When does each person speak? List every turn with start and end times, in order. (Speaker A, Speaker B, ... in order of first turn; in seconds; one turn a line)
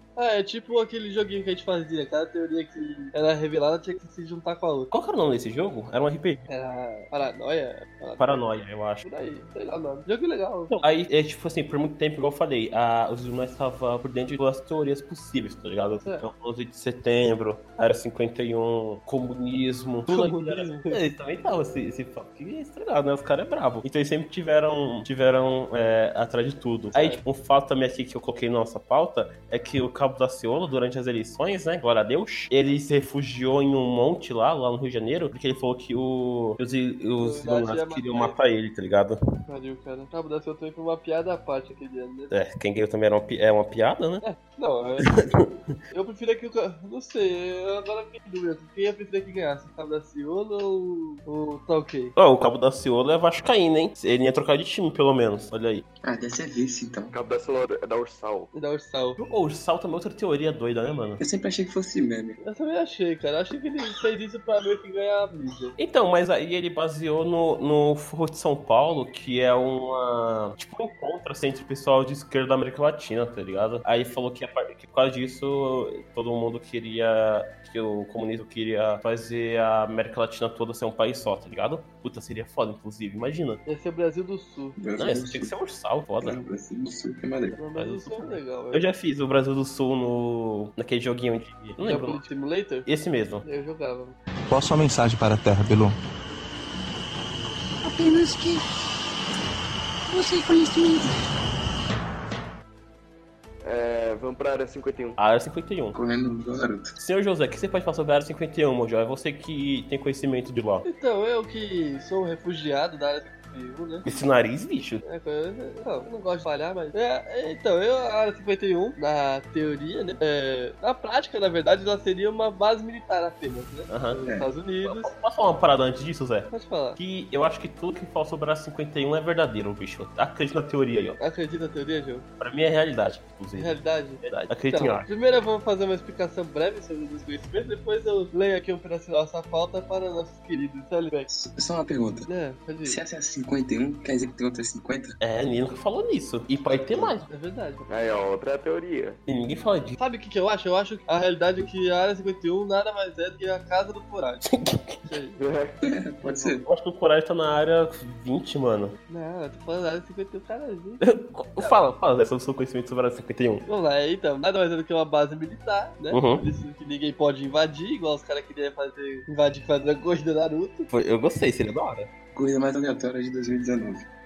Speaker A: 0.1-4.9
Speaker B: 4.9-6.5
Speaker A: 6.5-8.4
Speaker B: 8.2-9.0
Speaker A: 9.0-10.7
Speaker B: 10.7-39.2
Speaker A: 20.1-21.0
Speaker A: 26.9-27.2
Speaker A: 37.2-38.4
Speaker A: 39.5-42.3
Speaker B: 42.3-44.2
Speaker A: 44.2-45.1
Speaker B: 45.0-45.8
Speaker A: 45.9-52.1
Speaker B: 52.1-55.8
Speaker C: 56.0-57.1
Speaker D: 57.1-58.5
Speaker A: 58.5-59.2
Speaker B: 59.2-61.2
Speaker C: 61.2-62.4
Speaker A: 62.4-65.7
Speaker B: 65.8-83.6
Speaker A: 83.7-84.8
Speaker C: 84.8-85.5
Speaker B: 85.0-86.4
Speaker C: 86.2-87.6
Speaker A: 87.6-88.8
Speaker B: 87.8-92.2
Speaker A: 91.8-92.9
Speaker B: 92.8-93.4
Speaker A: 93.4-94.2
Speaker E: 94.5-96.0
Speaker E: 97.8-98.6
Speaker E: 100.1-101.1
Speaker D: 103.6-105.2
Speaker B: 105.2-106.0
Speaker C: 105.9-106.9
Speaker B: 107.0-110.8
Speaker A: 110.8-114.0
Speaker B: 114.0-115.0
Speaker A: 115.0-125.1
Speaker B: 123.9-124.2
Speaker C: 124.2-124.5
Speaker B: 124.8-131.2
Speaker A: 126.5-127.0
Speaker A: 131.2-132.2
Speaker B: 132.4-135.1
Speaker A: 133.5-141.3
Speaker C: 141.3-142.3
Speaker A: 142.3-143.0
Speaker C: 142.8-145.2
Speaker B: 145.2-147.3
Speaker A: 147.3-147.8
Speaker D: 147.9-149.2
Speaker B: 149.3-150.0
Speaker A: 150.0-154.4
Speaker B: 154.4-155.1
Speaker A: 155.0-155.4
Speaker D: 155.4-155.8
Speaker C: 155.8-156.7
Speaker A: 156.2-156.6
Speaker B: 156.7-159.0
Speaker A: 159.1-161.0
Speaker B: 161.0-163.7
Speaker A: 163.7-170.9
Speaker B: 166.1-166.5
Speaker B: 170.9-172.1
Speaker C: 172.3-174.1